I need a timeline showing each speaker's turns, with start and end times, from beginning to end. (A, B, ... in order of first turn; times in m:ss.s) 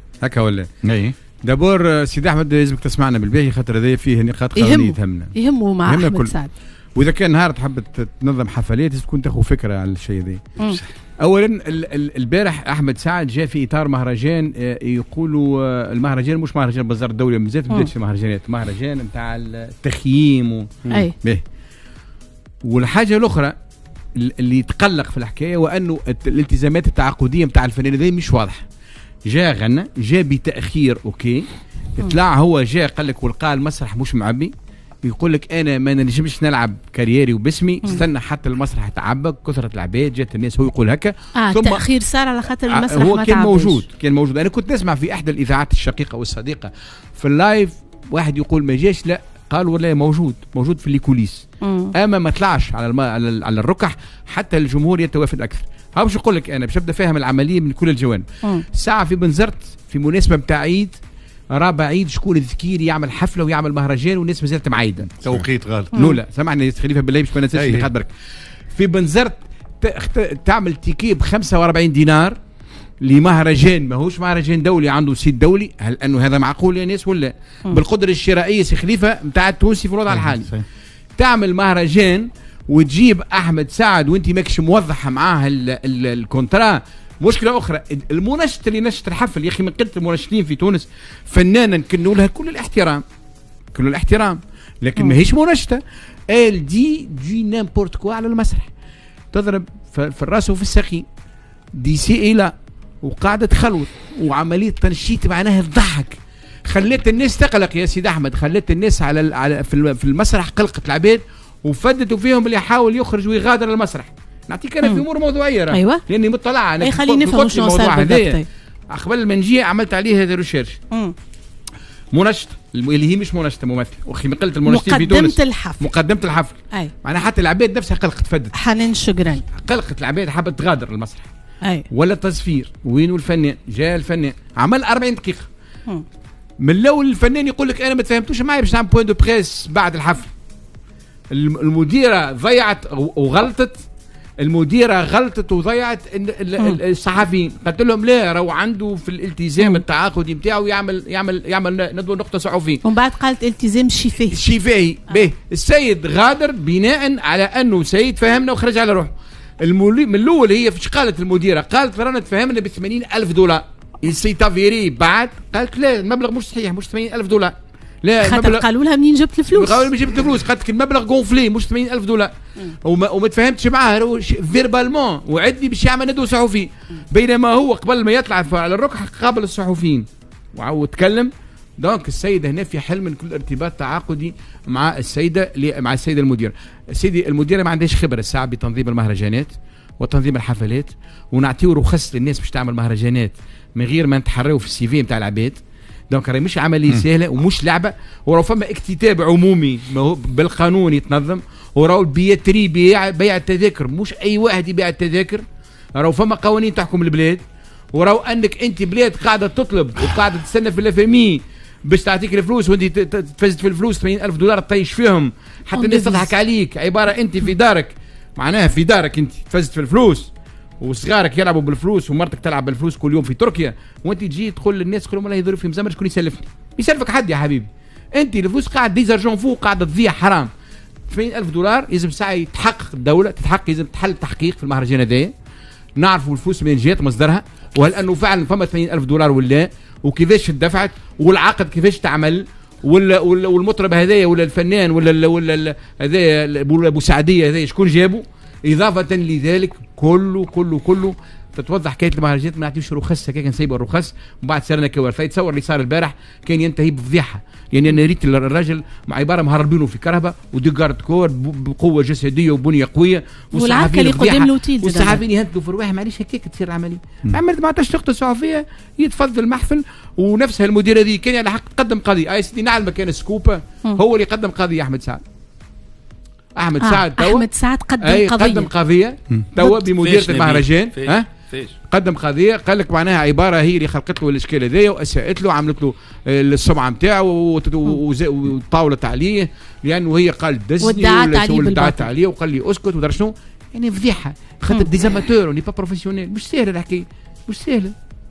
0:00.2-0:05.3 A
0:04.6-0:06.5 B
0:05.8-0:06.3 A
0:07.0-0:10.6 A
0:11.2-0:21.4 A
0:20.9-0:21.1 B
0:22.6-0:23.6 A
0:24.2-0:28.6 A
0:29.3-0:31.4 A
0:32.0-0:34.5 A
0:35.0-0:41.8 A
0:41.4-0:43.8 B
0:42.6-1:01.0 A
0:51.6-0:51.9 B
1:01.5-1:08.1 A
1:05.2-1:05.9 C
1:05.9-1:06.2 B
1:07.5-1:07.9 C
1:08.7-1:12.4 A
1:13.0-1:20.6 A
1:21.2-1:33.0 A
1:33.7-1:38.7 A
1:39.3-1:41.0 A
1:41.7-1:58.4 A
1:54.8-1:55.1 B
1:55.7-1:56.0 B
1:56.8-1:58.5 B
1:58.9-2:00.8 A
2:00.9-2:01.2 B
2:02.1-2:08.5 A
2:04.6-2:05.8 B
2:08.5-2:09.4 B
2:09.5-2:11.3 A
2:11.6-2:11.9 B
2:11.9-2:15.5 A
2:16.6-2:20.3 A
2:21.3-2:23.8 A
2:24.4-2:32.8 A
2:32.8-2:34.4 B
2:34.3-2:48.6 A
2:48.2-2:49.9 B
2:49.5-3:25.4 A
3:26.0-3:27.4 A
3:27.9-3:50.5 A
3:35.7-3:36.3 B
3:51.1-3:55.3 A
3:56.0-4:35.2 A
4:23.5-4:25.2 B
4:36.6-4:37.5 A
4:36.8-4:38.7 B
4:38.0-4:41.3 A
4:39.8-4:41.7 C
4:41.8-4:57.9 A
4:50.8-4:52.1 B